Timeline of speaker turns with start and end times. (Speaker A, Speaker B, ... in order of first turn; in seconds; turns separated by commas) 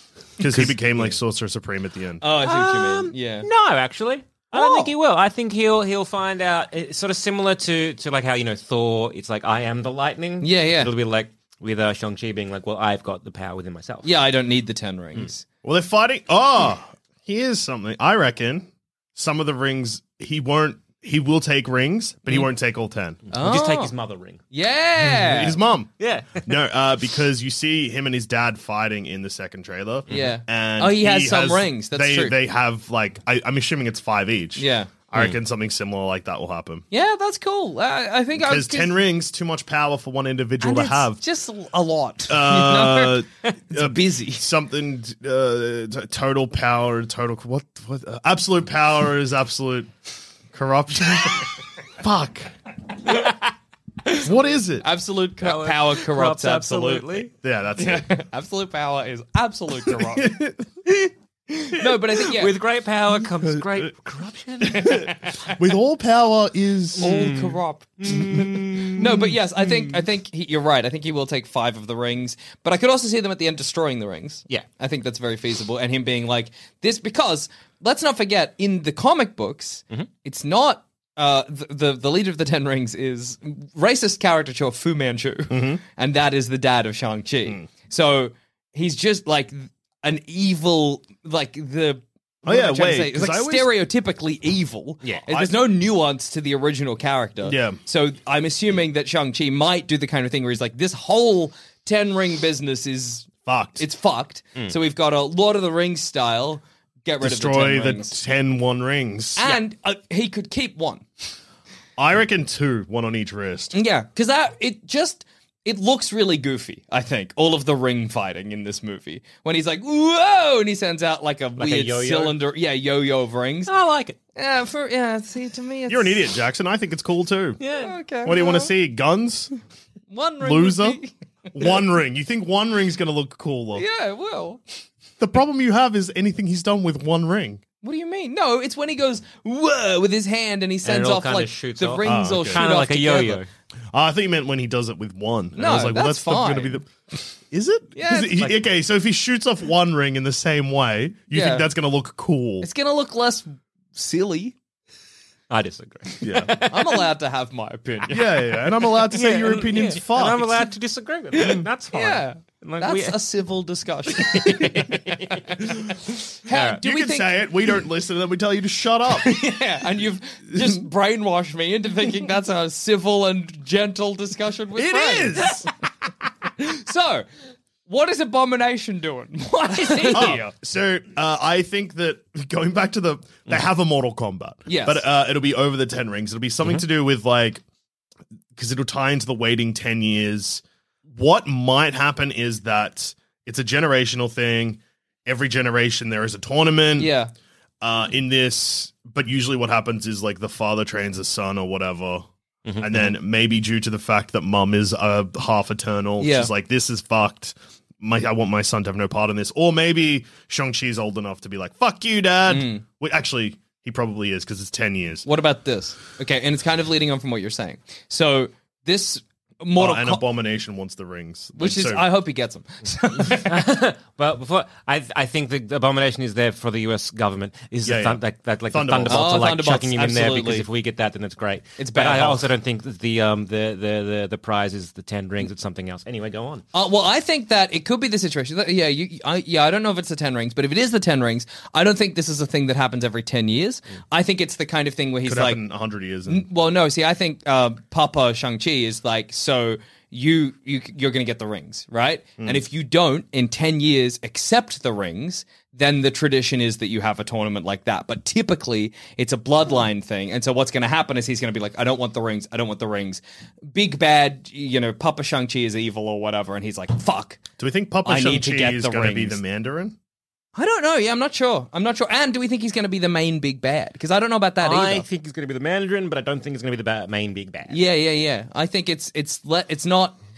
Speaker A: 0.4-2.2, Speaker B: 0.5-1.1, Speaker C: 2.2-3.5, Speaker B: 2.4-14.1, Speaker C: 4.5-4.9, Speaker C: 10.4-10.9, Speaker C: 14.0-15.4, Speaker A: 15.6-23.2, Speaker B: 23.3-24.4, Speaker C: 23.3-23.9, Speaker C: 24.5-25.6, Speaker A: 25.1-36.8, Speaker B: 26.0-26.5, Speaker C: 30.1-32.3, Speaker C: 34.6-34.9, Speaker C: 36.9-39.0, Speaker A: 38.4-41.2, Speaker C: 40.6-44.4, Speaker A: 42.3-49.9, Speaker A: 50.5-52.5, Speaker A: 54.2-54.9, Speaker C: 54.8-60.4, Speaker B: 55.4-57.3, Speaker A: 57.4-58.1, Speaker A: 59.9-61.0, Speaker C: 61.5-62.5, Speaker B: 62.3-65.0, Speaker A: 64.6-67.1, Speaker C: 64.8-65.5, Speaker B: 67.0-69.2, Speaker C: 67.0-108.2, Speaker A: 85.5-85.8, Speaker A: 92.4-93.7, Speaker A: 95.3-95.5, Speaker A: 97.4-97.8, Speaker A: 103.4-103.8, Speaker A: 107.2-109.6, Speaker C: 109.4-111.0, Speaker A: 112.0-113.7, Speaker C: 113.7-123.7, Speaker B: 121.6-122.3, Speaker B: 123.7-124.2, Speaker C: 124.3-126.3, Speaker A: 125.9-127.6, Speaker B: 127.6-127.9, Speaker C: 127.8-128.7, Speaker A: 128.2-129.5, Speaker C: 130.1-131.8, Speaker A: 130.4-131.0, Speaker A: 131.5-133.8, Speaker C: 133.8-134.6, Speaker A: 135.2-137.6, Speaker C: 137.8-143.4, Speaker B: 140.8-143.5, Speaker A: 142.0-142.6, Speaker A: 143.9-152.7, Speaker C: 145.6-146.8, Speaker C: 147.9-148.5, Speaker C: 151.3-151.7, Speaker C: 152.6-154.6, Speaker B: 155.5-156.7, Speaker A: 156.2-156.7, Speaker C: 156.6-158.3, Speaker A: 158.1-160.7, Speaker B: 159.1-163.2, Speaker C: 161.3-165.9, Speaker B: 164.2-165.6, Speaker C: 166.4-167.5, Speaker B: 166.5-166.8, Speaker A: 166.8-169.4, Speaker C: 169.1-175.7, Speaker A: 174.8-175.7, Speaker C: 176.6-177.2, Speaker C: 177.8-180.4, Speaker B: 179.8-180.4, Speaker A: 180.1-187.6, Speaker C: 184.7-185.0, Speaker A: 188.5-197.1, Speaker C: 197.0-197.3, Speaker A: 197.8-202.3, Speaker B: 202.7-203.1, Speaker A: 202.8-215.2, Speaker C: 206.2-206.5, Speaker C: 212.5-212.8, Speaker C: 215.2-220.2, Speaker A: 219.8-222.0, Speaker C: 221.6-223.6, Speaker B: 223.4-236.6, Speaker A: 227.8-229.4, Speaker C: 229.1-230.7, Speaker C: 231.8-232.5, Speaker C: 236.7-245.6, Speaker A: 245.2-246.5, Speaker C: 246.3-267.4, Speaker A: 267.6-269.9, Speaker C: 268.0-269.4, Speaker C: 270.5-275.1, Speaker B: 274.6-277.8, Speaker C: 277.7-280.2